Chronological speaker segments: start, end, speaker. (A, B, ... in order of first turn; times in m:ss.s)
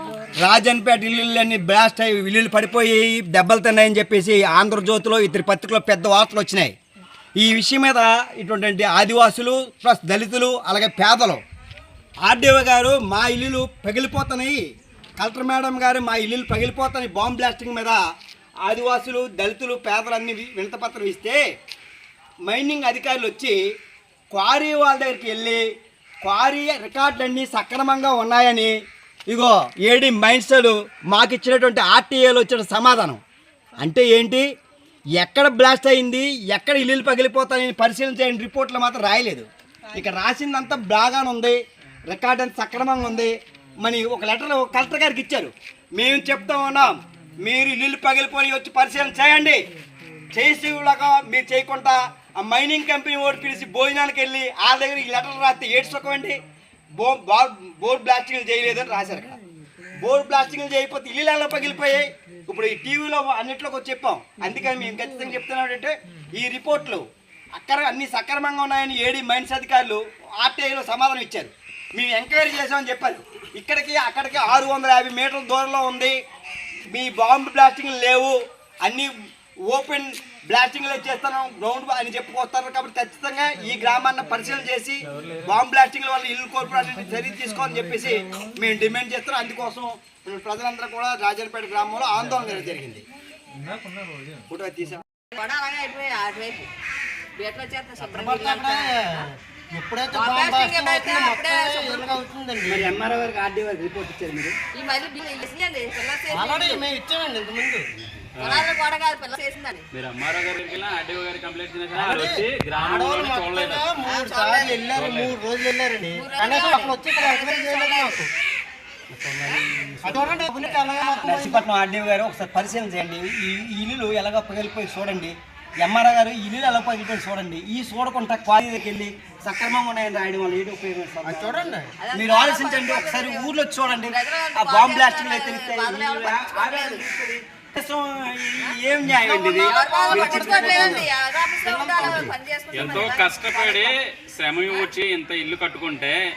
0:00.4-0:06.8 A
0:07.4-0:11.4 A
0:12.2-0:14.6 A
0:15.2-0:18.0 A
0:18.6-0:21.4 A
0:22.5-0:23.6 A
0:24.3-0:25.6 A
0:26.2-0:28.7 A
0:29.3-0:33.2 A
0:33.8-0:34.5 A
0:35.2-0:49.6 A
0:50.3-0:56.4 A
0:57.0-0:59.4 A
1:00.0-1:07.0 A
1:07.6-1:16.2 A
1:16.9-1:19.1 A
1:19.7-1:33.0 A
1:34.5-1:35.0 A
1:35.3-1:36.7 B
1:37.4-1:39.3 B
1:38.1-1:42.9 C
1:40.1-1:42.2 B
1:42.6-1:44.6 A
1:44.7-1:46.9 B
1:46.3-1:47.8 C
1:48.4-1:48.7 D
1:48.4-1:49.8 B
1:49.9-1:53.8 D
1:51.9-1:58.3 C
1:54.0-1:54.9 B
1:54.9-1:55.4 D
1:56.1-1:58.2 B
1:59.1-2:00.3 A
2:00.0-2:01.6 C
2:00.5-2:01.3 B
2:01.2-2:21.1 A
2:11.2-2:11.9 C
2:12.0-2:17.0 B
2:19.1-2:21.1 C
2:19.5-2:24.0 B
2:21.6-2:23.1 C
2:22.0-2:22.3 A
2:22.7-2:26.2 D
2:24.7-2:24.9 B